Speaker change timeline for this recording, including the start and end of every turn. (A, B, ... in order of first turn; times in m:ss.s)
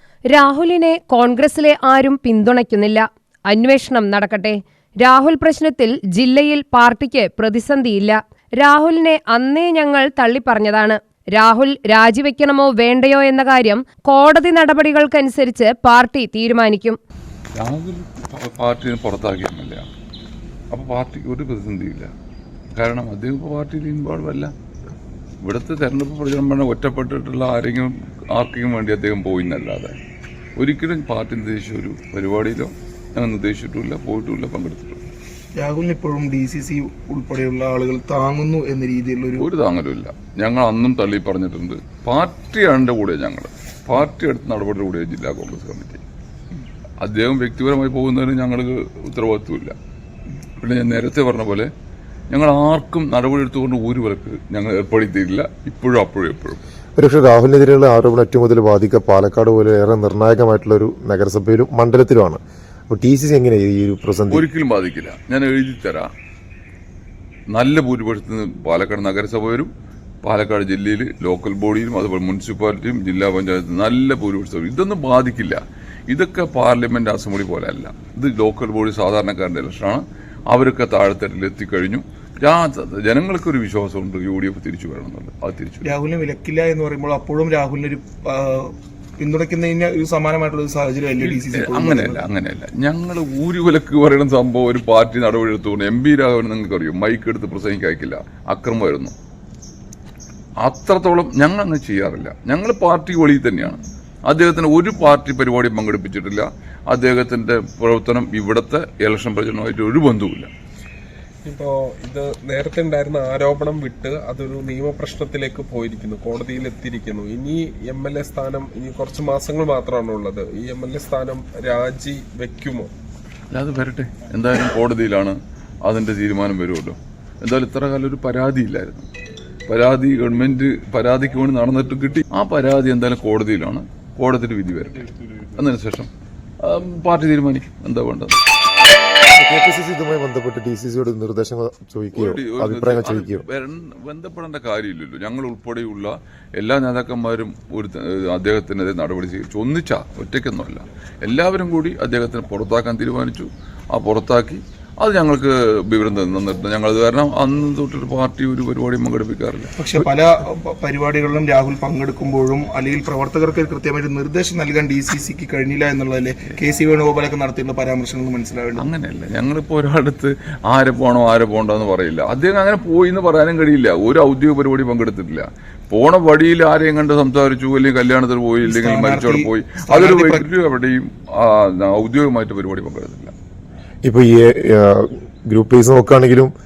0:00.3-0:17.0 A
0:17.6-0:19.9 B
0:20.7-0:22.1 B
0:22.8-0:24.5 B
0:25.4-0:30.0 B
0:30.6-0:35.0 B
0:35.6-0:39.5 C
0:39.4-0:46.0 B
0:47.0-0:49.8 B
0:50.6-0:51.7 B
0:52.3-0:56.6 B
0:57.0-1:04.4 D
1:04.3-1:06.1 B
1:07.5-1:09.7 B
1:10.2-1:25.9 B
1:25.8-1:32.2 C
1:31.2-1:39.1 B
1:40.6-1:50.5 B
1:51.4-2:02.9 E
2:03.5-2:09.1 B
2:09.7-2:16.1 B
2:16.6-2:18.4 B
2:19.4-2:23.4 D
2:22.1-2:40.0 B
2:39.8-2:48.9 C
2:48.8-3:03.3 B
2:58.6-3:00.4 C
3:04.0-3:06.5 D